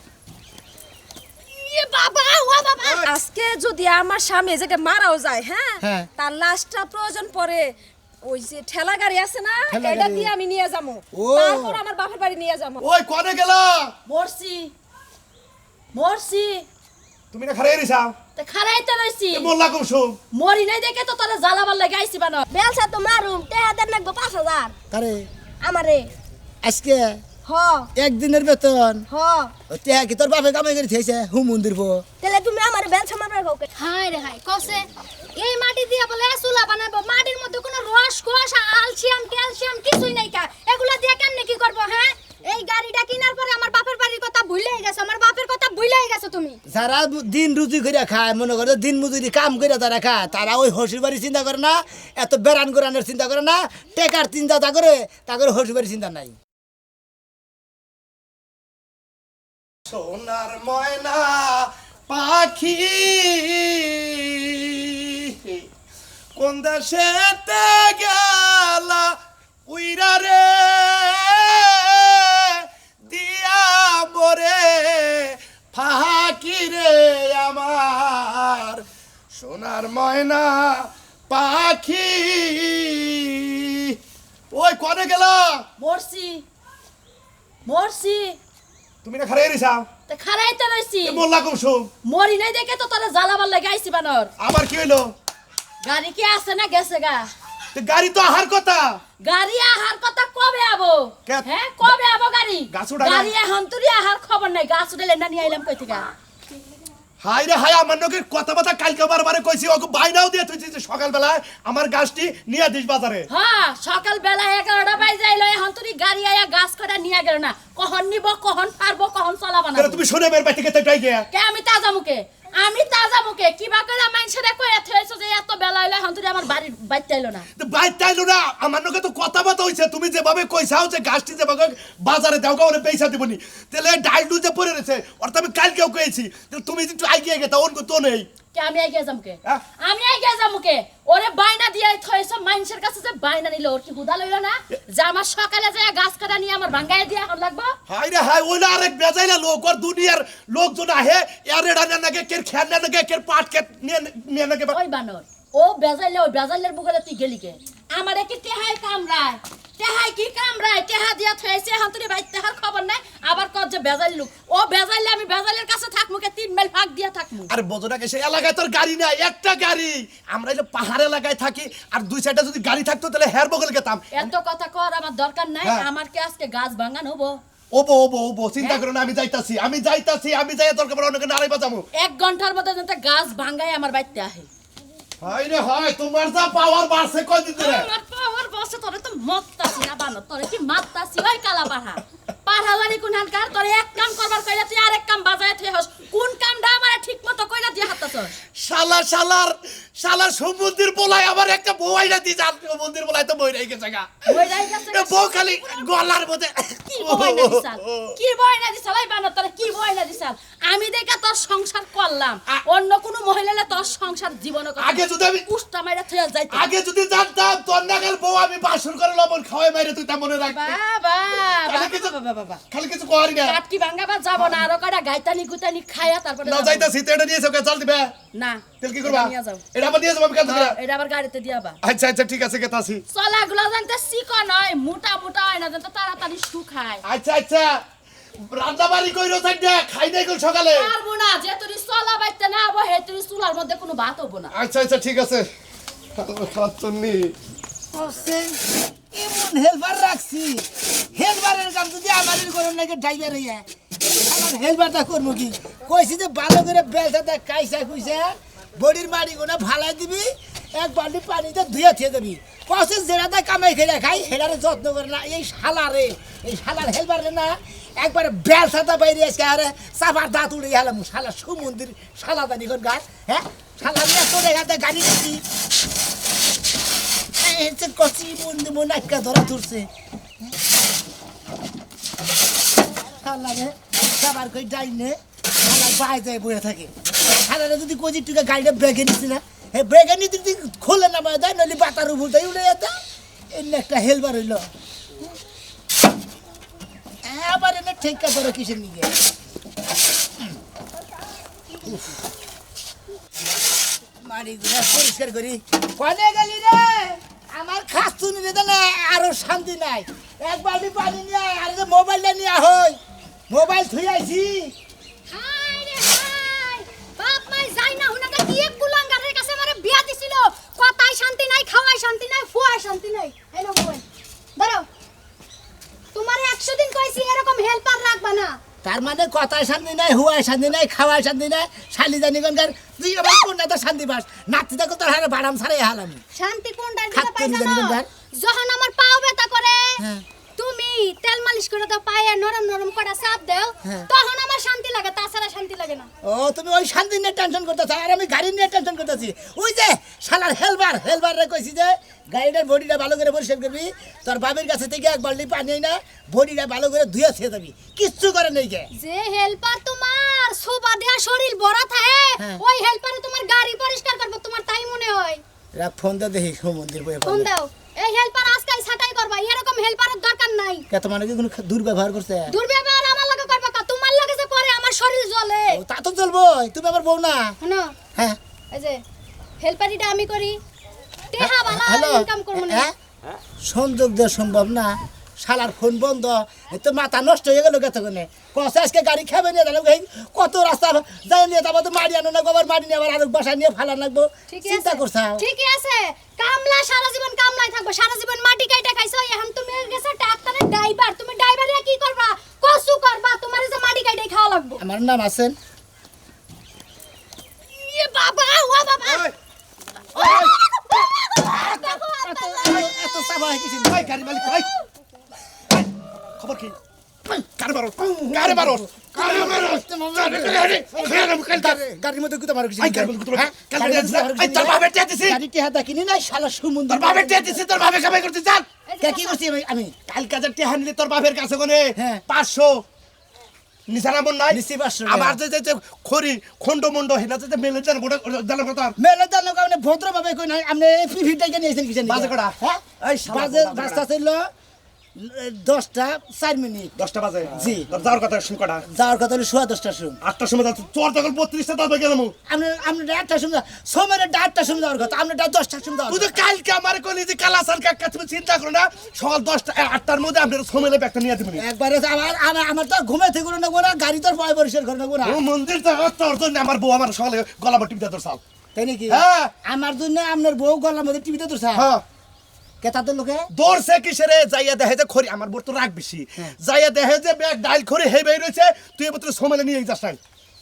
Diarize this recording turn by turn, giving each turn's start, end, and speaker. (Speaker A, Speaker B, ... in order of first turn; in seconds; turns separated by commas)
Speaker A: 1.5-2.9, Speaker B: 2.8-3.1, Speaker C: 3.0-7.7, Speaker D: 5.8-6.1, Speaker C: 8.2-12.8, Speaker D: 9.7-10.3, Speaker D: 11.1-11.8, Speaker B: 12.8-13.9, Speaker E: 14.1-14.7, Speaker E: 15.9-16.7, Speaker B: 17.3-18.1, Speaker E: 18.4-19.5, Speaker B: 19.3-20.2, Speaker E: 20.3-22.5, Speaker F: 22.5-24.7, Speaker D: 24.9-25.3, Speaker F: 25.6-26.1, Speaker D: 26.6-27.2, Speaker F: 27.5-27.9, Speaker D: 28.0-29.0, Speaker F: 29.1-29.5, Speaker D: 29.7-32.0, Speaker F: 32.2-33.7, Speaker A: 33.8-34.9, Speaker A: 35.4-46.6, Speaker D: 46.7-56.4, Speaker B: 59.9-65.6, Speaker B: 66.4-78.8, Speaker B: 79.3-84.0, Speaker B: 84.5-85.7, Speaker E: 85.8-86.4, Speaker E: 87.7-88.4, Speaker B: 89.0-89.9, Speaker E: 90.1-91.2, Speaker B: 91.0-91.9, Speaker E: 92.0-94.3, Speaker B: 94.4-95.1, Speaker E: 95.8-97.3, Speaker B: 97.8-99.0, Speaker E: 99.2-106.1, Speaker B: 101.3-101.9, Speaker B: 102.7-103.3, Speaker B: 107.2-113.3, Speaker E: 113.3-120.0, Speaker B: 119.8-121.3, Speaker E: 121.3-127.5, Speaker B: 127.6-138.3, Speaker E: 138.5-147.8, Speaker B: 147.9-154.8, Speaker E: 154.7-167.5, Speaker B: 167.5-174.1, Speaker E: 174.1-177.4, Speaker B: 177.7-181.9, Speaker E: 182.0-184.5, Speaker B: 185.2-187.9, Speaker E: 187.6-198.3, Speaker B: 198.6-208.2, Speaker E: 204.3-205.9, Speaker E: 206.9-216.7, Speaker B: 214.8-215.5, Speaker B: 216.5-220.8, Speaker E: 220.4-222.6, Speaker B: 221.7-222.2, Speaker B: 222.7-223.6, Speaker E: 223.4-226.9, Speaker B: 226.4-228.1, Speaker E: 228.3-229.6, Speaker B: 228.8-230.8, Speaker E: 230.4-231.8, Speaker B: 231.8-233.0, Speaker E: 233.1-237.0, Speaker B: 237.0-237.8, Speaker B: 238.4-240.9, Speaker E: 240.7-244.5, Speaker B: 244.5-245.5, Speaker B: 246.2-247.3, Speaker D: 247.9-248.6, Speaker D: 249.1-275.4, Speaker D: 277.4-279.9, Speaker D: 283.2-293.0, Speaker D: 293.5-294.7, Speaker D: 297.2-299.1, Speaker D: 304.2-313.0, Speaker D: 313.5-314.7, Speaker A: 315.3-324.0, Speaker A: 324.6-324.9, Speaker A: 326.1-328.6, Speaker D: 328.8-336.2, Speaker A: 336.4-340.0, Speaker D: 337.1-338.1, Speaker D: 340.0-340.2, Speaker A: 340.6-346.1, Speaker D: 346.2-358.9, Speaker A: 358.9-365.4, Speaker D: 365.8-367.5, Speaker A: 367.2-370.9, Speaker D: 370.9-372.6, Speaker A: 372.5-375.8, Speaker D: 375.7-377.6, Speaker A: 377.6-377.9, Speaker A: 378.7-379.0, Speaker A: 379.6-380.6, Speaker A: 381.3-382.9, Speaker D: 381.4-382.9, Speaker D: 383.6-395.4, Speaker A: 394.5-404.8, Speaker D: 404.8-405.6, Speaker A: 407.7-409.3, Speaker B: 409.0-409.3, Speaker D: 410.2-410.5, Speaker B: 410.2-410.5, Speaker A: 410.2-412.9, Speaker D: 411.4-414.5, Speaker B: 413.9-414.7, Speaker B: 416.4-416.8, Speaker B: 417.3-421.8, Speaker D: 418.1-427.7, Speaker B: 422.8-425.4, Speaker B: 426.9-428.7, Speaker A: 428.9-429.4, Speaker D: 429.0-430.0, Speaker B: 430.1-432.8, Speaker D: 432.0-432.2, Speaker B: 433.9-438.9, Speaker D: 434.5-435.4, Speaker D: 439.0-444.5, Speaker B: 442.1-444.0, Speaker D: 445.2-446.9, Speaker B: 447.0-448.8, Speaker D: 447.5-447.9, Speaker D: 448.9-450.2, Speaker B: 450.2-452.4, Speaker D: 452.5-456.4, Speaker B: 456.1-461.6, Speaker D: 461.6-465.4, Speaker B: 465.2-468.4, Speaker D: 468.8-471.9, Speaker B: 469.1-469.5, Speaker B: 471.8-472.0, Speaker D: 472.8-473.5, Speaker B: 473.5-480.2